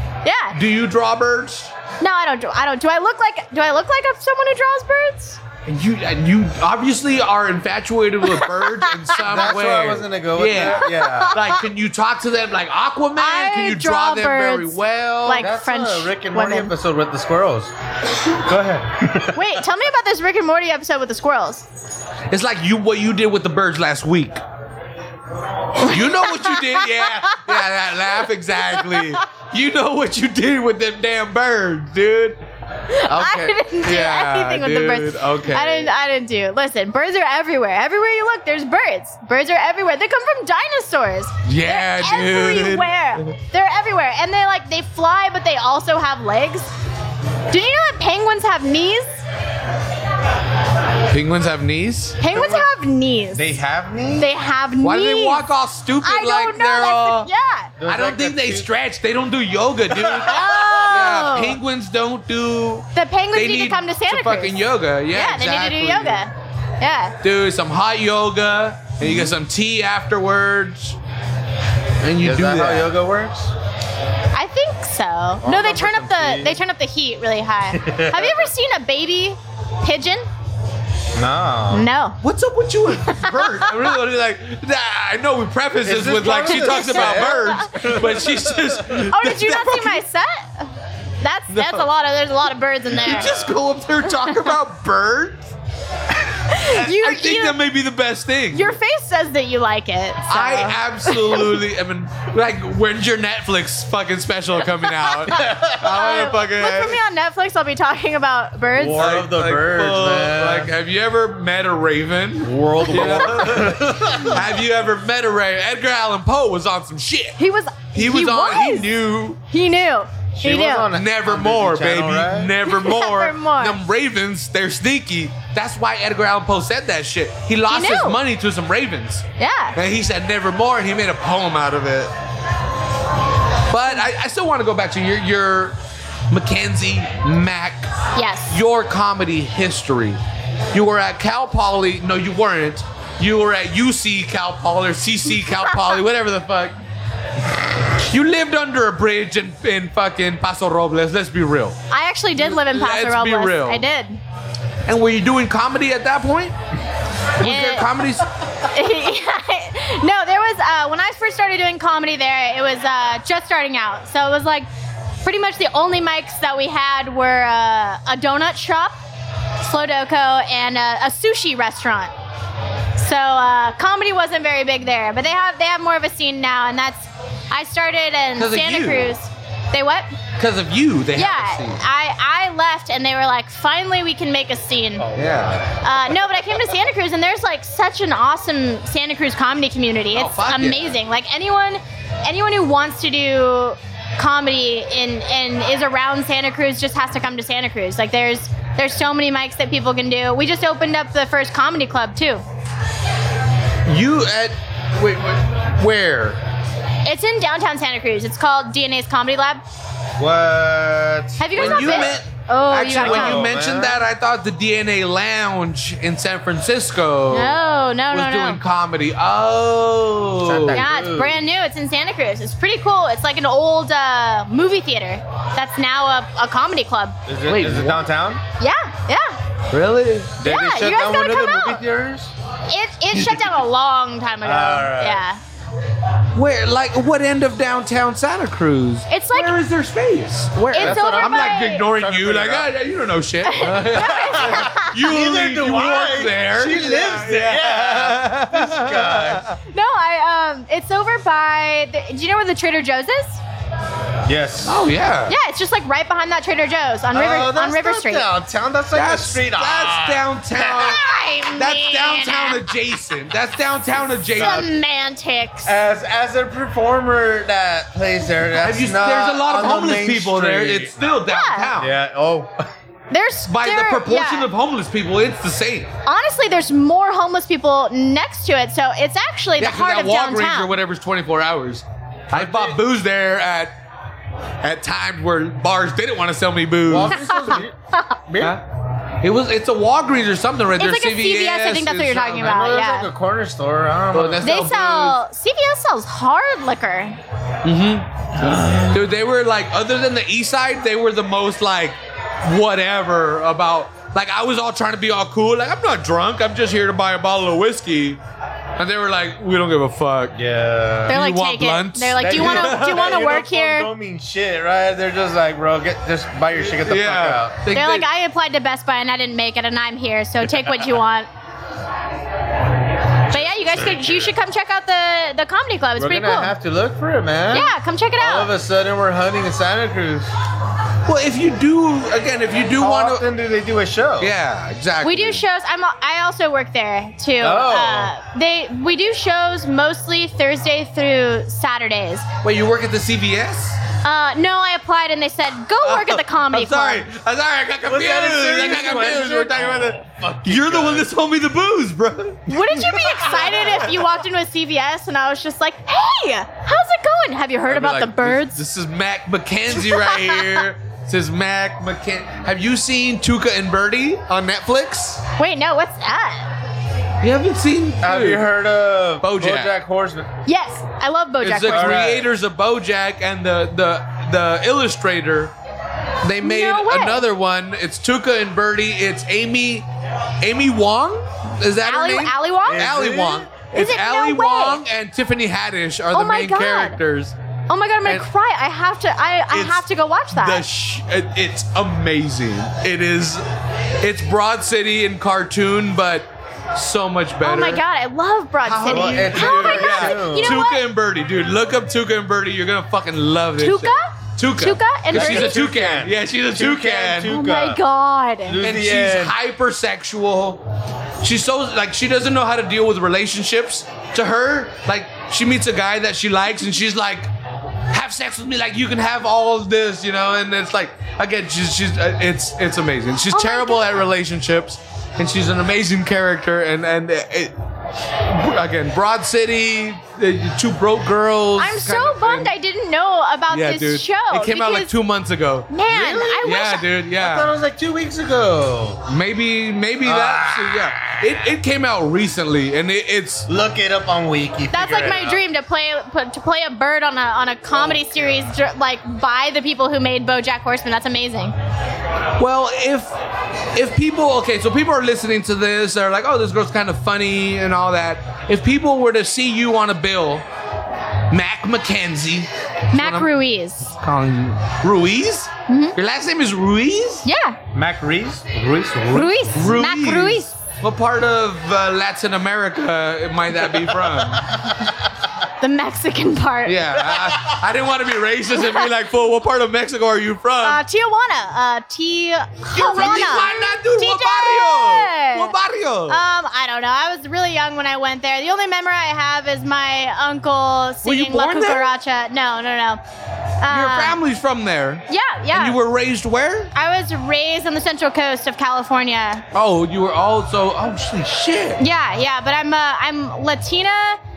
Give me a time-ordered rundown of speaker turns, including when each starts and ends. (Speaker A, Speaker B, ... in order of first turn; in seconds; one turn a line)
Speaker A: 0.2-0.6
Speaker B: 0.5-1.7
Speaker A: 2.0-5.4
Speaker B: 5.7-15.5
Speaker A: 8.4-8.9
Speaker C: 9.2-11.4
Speaker A: 10.6-11.6
Speaker A: 13.2-16.7
Speaker C: 15.4-17.7
Speaker C: 18.4-19.4
Speaker A: 19.3-21.7
Speaker B: 22.3-24.4
Speaker B: 25.8-32.4
Speaker A: 25.8-27.4
Speaker A: 28.8-29.1
Speaker A: 32.9-46.7
Speaker B: 33.0-35.9
Speaker B: 41.4-43.3
Speaker A: 47.5-49.2
Speaker B: 51.1-52.2
Speaker A: 52.2-53.5
Speaker C: 52.3-52.7
Speaker C: 53.3-54.3
Speaker A: 54.2-55.4
Speaker B: 54.8-57.3
Speaker A: 56.0-57.7
Speaker C: 57.8-58.7
Speaker B: 57.9-66.2
Speaker C: 59.9-60.9
Speaker A: 60.2-61.6
Speaker A: 62.9-64.5
Speaker A: 65.1-67.2
Speaker B: 67.2-71.0
Speaker C: 69.0-69.3
Speaker B: 72.0-72.9
Speaker C: 72.2-73.5
Speaker A: 74.3-80.3
Speaker C: 75.4-76.6
Speaker C: 77.7-78.4
Speaker C: 81.1-81.9
Speaker A: 81.7-82.2
Speaker B: 82.2-90.0
Speaker A: 83.1-83.9
Speaker C: 85.8-89.0
Speaker A: 86.5-87.7
Speaker A: 89.1-90.7
Speaker A: 91.2-93.4
Speaker B: 91.5-91.9
Speaker B: 92.9-95.5
Speaker C: 92.9-93.5
Speaker A: 96.5-97.6
Speaker B: 96.7-98.8
Speaker A: 98.5-101.6
Speaker B: 100.3-107.0
Speaker A: 105.3-109.0
Speaker C: 105.4-105.8
Speaker C: 108.7-110.7
Speaker B: 108.8-117.4
Speaker C: 112.4-114.4
Speaker A: 117.4-118.9
Speaker B: 117.9-119.4
Speaker A: 119.5-120.9
Speaker C: 120.4-122.5
Speaker B: 120.9-132.1
Speaker A: 122.6-123.8
Speaker A: 127.7-128.2
Speaker A: 129.4-129.8
Speaker B: 133.7-135.8
Speaker B: 136.3-137.9
Speaker A: 138.2-138.5
Speaker B: 138.5-140.2
Speaker B: 140.7-146.8
Speaker B: 148.1-151.8
Speaker A: 151.9-154.2
Speaker B: 152.4-153.8
Speaker B: 154.9-156.5
Speaker B: 157.4-158.3
Speaker A: 157.4-157.9
Speaker A: 158.7-164.7
Speaker A: 165.2-169.0
Speaker A: 169.6-172.1
Speaker A: 173.0-180.1
Speaker B: 178.3-179.1
Speaker B: 180.4-181.8
Speaker A: 181.1-185.1
Speaker C: 185.0-185.8
Speaker B: 185.1-185.6
Speaker A: 185.8-202.4
Speaker B: 190.1-190.9
Speaker B: 203.8-206.4
Speaker A: 207.0-209.6
Speaker C: 210.2-212.2
Speaker A: 211.4-213.5
Speaker B: 211.5-217.6
Speaker C: 212.9-214.0
Speaker A: 217.3-218.6
Speaker B: 218.1-220.8
Speaker C: 220.4-221.4
Speaker A: 220.7-227.2
Speaker C: 227.3-228.4
Speaker B: 227.4-228.1
Speaker A: 228.6-229.4
Speaker B: 229.7-230.4
Speaker C: 230.4-232.3
Speaker A: 230.4-231.8
Speaker A: 232.7-235.4
Speaker B: 233.1-233.4
Speaker C: 234.4-235.2
Speaker B: 236.3-249.5
Speaker A: 239.1-239.6
Speaker A: 240.7-241.8
Speaker C: 240.7-242.7
Speaker A: 243.4-245.0
Speaker C: 243.8-249.6
Speaker A: 249.7-253.4
Speaker C: 254.2-254.8
Speaker B: 254.7-255.3
Speaker A: 255.3-258.3
Speaker C: 257.1-261.0
Speaker B: 258.9-261.0
Speaker A: 260.7-262.8
Speaker B: 261.5-264.7
Speaker C: 264.4-264.7
Speaker A: 264.4-265.7
Speaker C: 265.6-271.2
Speaker B: 268.6-271.9
Speaker A: 271.3-271.7
Speaker C: 271.8-272.6
Speaker A: 273.1-274.5
Speaker B: 273.4-275.9
Speaker A: 276.1-280.7
Speaker B: 279.6-283.7
Speaker C: 282.3-282.8
Speaker B: 284.6-287.3
Speaker C: 286.9-287.7
Speaker A: 287.2-288.1
Speaker C: 288.3-288.6
Speaker B: 288.4-288.6
Speaker B: 289.2-292.4
Speaker A: 290.8-293.1
Speaker C: 292.3-294.4
Speaker B: 294.1-295.2
Speaker A: 294.4-297.2
Speaker B: 297.6-308.2
Speaker C: 298.4-299.0
Speaker B: 308.8-310.3
Speaker C: 310.3-311.2
Speaker B: 311.1-313.2
Speaker A: 311.1-313.9
Speaker C: 312.2-317.6
Speaker B: 316.9-318.1
Speaker A: 317.7-321.3
Speaker A: 323.3-326.5
Speaker C: 323.3-324.3
Speaker C: 325.9-330.3
Speaker A: 327.5-328.5
Speaker B: 331.1-333.2
Speaker C: 332.8-334.3
Speaker B: 334.2-335.4
Speaker A: 335.0-342.3
Speaker C: 337.4-338.1
Speaker B: 342.4-343.8
Speaker A: 344.0-347.1
Speaker B: 345.8-352.6
Speaker C: 347.9-351.1
Speaker A: 352.5-358.6
Speaker B: 353.2-353.8
Speaker B: 357.7-365.2
Speaker A: 359.8-360.6
Speaker A: 365.4-366.5
Speaker B: 367.2-368.5
Speaker C: 368.0-370.3
Speaker B: 369.2-369.7
Speaker A: 370.5-372.1
Speaker B: 371.4-375.5
Speaker C: 371.7-372.2
Speaker B: 376.2-379.9
Speaker A: 376.4-377.2
Speaker B: 380.4-387.4
Speaker A: 381.8-382.9
Speaker C: 382.6-383.6
Speaker A: 383.7-384.8
Speaker A: 386.1-387.0
Speaker A: 387.7-390.6
Speaker B: 389.5-393.4
Speaker B: 394.0-397.8
Speaker A: 397.4-400.8
Speaker B: 398.6-407.4
Speaker C: 398.9-400.6
Speaker A: 403.6-405.7
Speaker C: 405.1-407.8
Speaker A: 407.3-408.6
Speaker C: 408.4-409.3
Speaker B: 408.6-410.6
Speaker B: 411.2-417.3
Speaker B: 417.9-427.5
Speaker A: 423.3-424.0
Speaker B: 428.2-432.5
Speaker A: 431.6-434.9
Speaker B: 433.5-437.5
Speaker A: 435.7-436.9
Speaker C: 435.9-436.5
Speaker C: 437.1-439.0
Speaker B: 439.1-443.5
Speaker C: 440.0-441.2
Speaker C: 443.5-445.4
Speaker A: 444.7-451.5
Speaker B: 452.4-453.1
Speaker B: 453.7-460.4
Speaker B: 461.3-463.3
Speaker A: 462.9-463.9
Speaker B: 463.9-467.3
Speaker A: 465.7-465.9
Speaker A: 467.2-467.6
Speaker C: 467.7-469.2
Speaker B: 469.1-474.5
Speaker A: 469.1-470.6
Speaker A: 475.6-476.8
Speaker B: 476.6-480.8
Speaker A: 480.6-485.5
Speaker B: 482.7-486.2
Speaker A: 486.1-493.0
Speaker B: 491.0-491.9
Speaker A: 493.6-494.2
Speaker B: 493.7-496.7
Speaker A: 495.1-495.8
Speaker A: 496.7-499.4
Speaker B: 499.5-501.8
Speaker A: 501.8-504.2